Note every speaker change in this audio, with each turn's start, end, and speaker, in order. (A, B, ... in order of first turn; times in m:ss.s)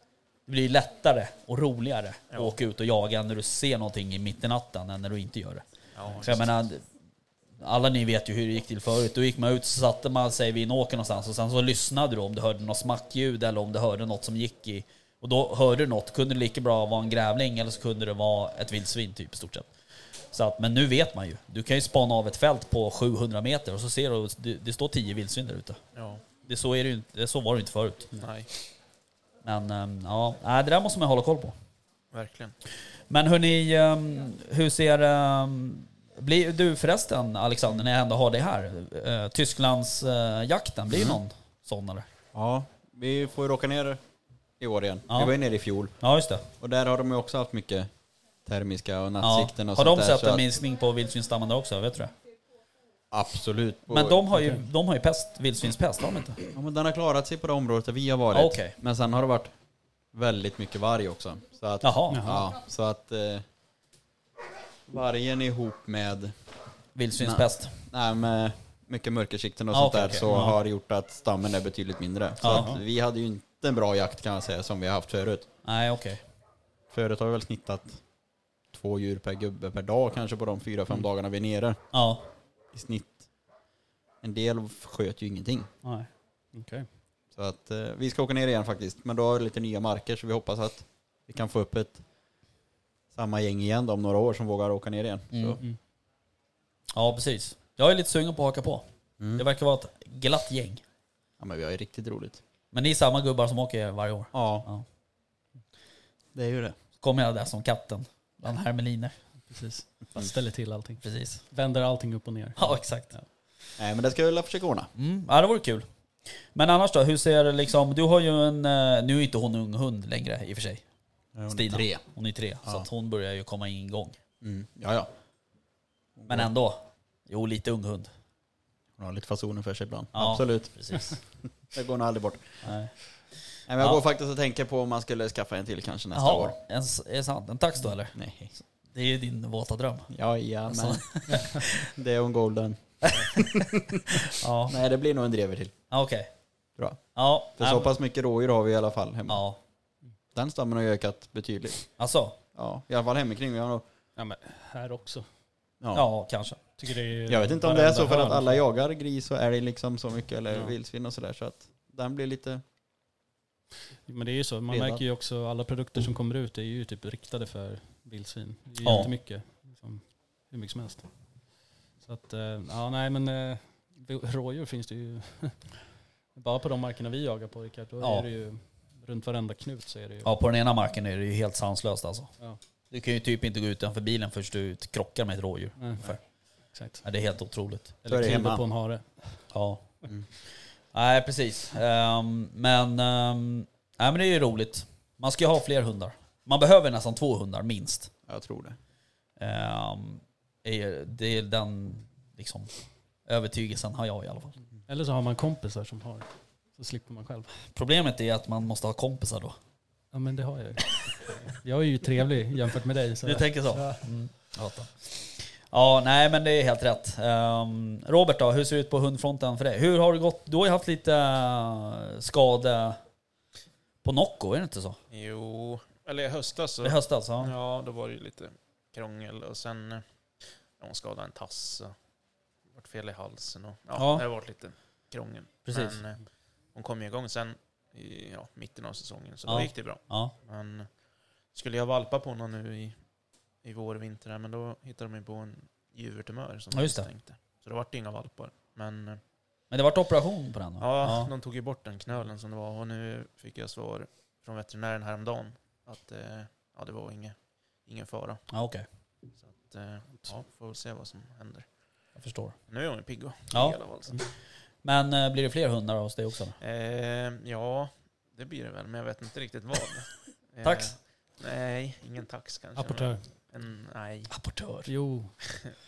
0:00.5-0:06.8 A
0:02.3-0:02.6 B
0:05.9-0:06.5 B
0:07.6-0:19.7 A
0:20.3-0:25.8 A
0:25.9-0:26.2 B
0:26.4-0:28.1 A
0:28.2-0:28.5 B
0:29.4-0:31.5 A
0:32.1-0:32.5 B
0:33.1-0:42.1 A
0:40.9-0:41.2 C
0:42.3-0:44.0 C
0:44.6-0:46.0 C
0:45.1-0:45.3 A
0:46.0-0:46.4 A
0:46.6-0:47.9 C
0:48.4-0:50.5 C
0:49.2-0:52.1 A
0:53.1-0:54.2 C
0:53.9-0:56.4 A
0:54.3-0:54.6 D
0:56.5-0:59.5 C
0:58.3-0:58.7 A
1:00.1-1:03.4 C
1:01.8-1:02.3 A
1:02.1-1:02.5 D
1:04.9-1:06.3 C
1:07.0-1:07.8 A
1:07.2-1:15.5 C
1:09.7-1:10.5 A
1:10.3-1:10.5 D
1:12.4-1:12.7 A
1:12.4-1:12.8 D
1:15.6-1:16.2 A
1:16.9-1:18.0 C
1:18.7-1:21.8 C
1:21.9-1:22.2 A
1:22.7-1:23.3 C
1:24.2-1:25.7 C
1:25.8-1:26.1 A
1:26.5-1:26.9 D
1:27.3-1:32.0 C
1:33.1-1:35.6 C
1:35.3-1:35.6 A
1:36.9-1:38.8 A
1:39.2-1:39.4 C
1:39.4-1:40.8 A
1:41.4-1:42.4 C
1:42.7-1:44.8 A
1:44.3-1:44.6 C
1:46.3-1:46.8 C
1:47.0-1:49.1 A
1:49.5-1:53.2 D
1:51.0-1:51.4 A
1:52.6-1:53.1 A
1:53.8-1:54.9 C
1:55.0-1:55.9 A
1:56.4-2:00.8 A
2:01.3-2:02.0 C
2:01.5-2:04.2 A
2:04.4-2:05.1 C
2:06.2-2:06.5 C
2:06.3-2:08.1 A
2:09.0-2:12.6 C
2:10.1-2:11.2 A
2:12.6-2:13.2 A
2:13.7-2:16.6 C
2:16.1-2:18.2 A
2:18.1-2:18.5 C
2:18.8-2:20.1 A
2:20.1-2:25.7 C
2:20.7-2:21.9 A
2:21.3-2:21.5 D
2:23.2-2:23.6 A
2:24.3-2:24.8 A
2:25.9-2:26.3 A
2:27.1-2:27.9 A
2:27.5-2:29.4 C
2:29.3-2:29.6 A
2:30.3-2:31.9 C
2:32.0-2:32.4 A
2:32.5-2:33.8 C
2:34.2-2:35.2 D
2:35.8-2:36.1 C
2:35.9-2:36.6 A
2:36.8-2:38.6 D
2:37.3-2:42.6 C
2:44.1-2:51.1 D
2:44.7-2:45.0 C
2:48.8-2:49.1 A
2:52.0-2:55.7 D
2:56.3-3:00.3 D
2:58.0-2:58.2 A
3:00.2-3:02.3 A
3:02.9-3:06.2 A
3:05.8-3:06.2 D
3:06.7-3:07.0 D
3:07.0-3:07.9 A
3:08.0-3:09.5 D
3:08.0-3:08.6 C
3:09.5-3:09.8 A
3:10.4-3:18.1 A
3:18.3-3:18.8 C
3:19.4-3:22.7 A
3:23.2-3:24.6 A
3:24.9-3:27.5 D
3:27.7-3:29.6 A
3:30.1-3:34.0 D
3:33.2-3:43.0 A
3:44.0-3:45.0 A
3:45.1-3:51.9 B
3:46.8-3:47.5 A
3:52.7-4:00.9 B
3:53.9-3:54.2 A
3:55.7-3:56.0 A
3:59.5-4:00.3 A
4:01.5-4:03.0 B
4:03.6-4:09.2 B
4:06.7-4:07.1 A
4:09.7-4:11.3 A
4:10.8-4:18.5 B
4:18.5-4:18.8 A
4:19.4-4:21.7 B
4:22.2-4:22.6 A
4:22.7-4:24.1 B
4:23.5-4:23.8 A
4:24.8-4:26.6 A
4:26.6-4:34.3 B
4:30.6-4:30.9 A
4:32.8-4:33.2 D
4:34.3-4:34.9 A
4:34.8-4:35.3 D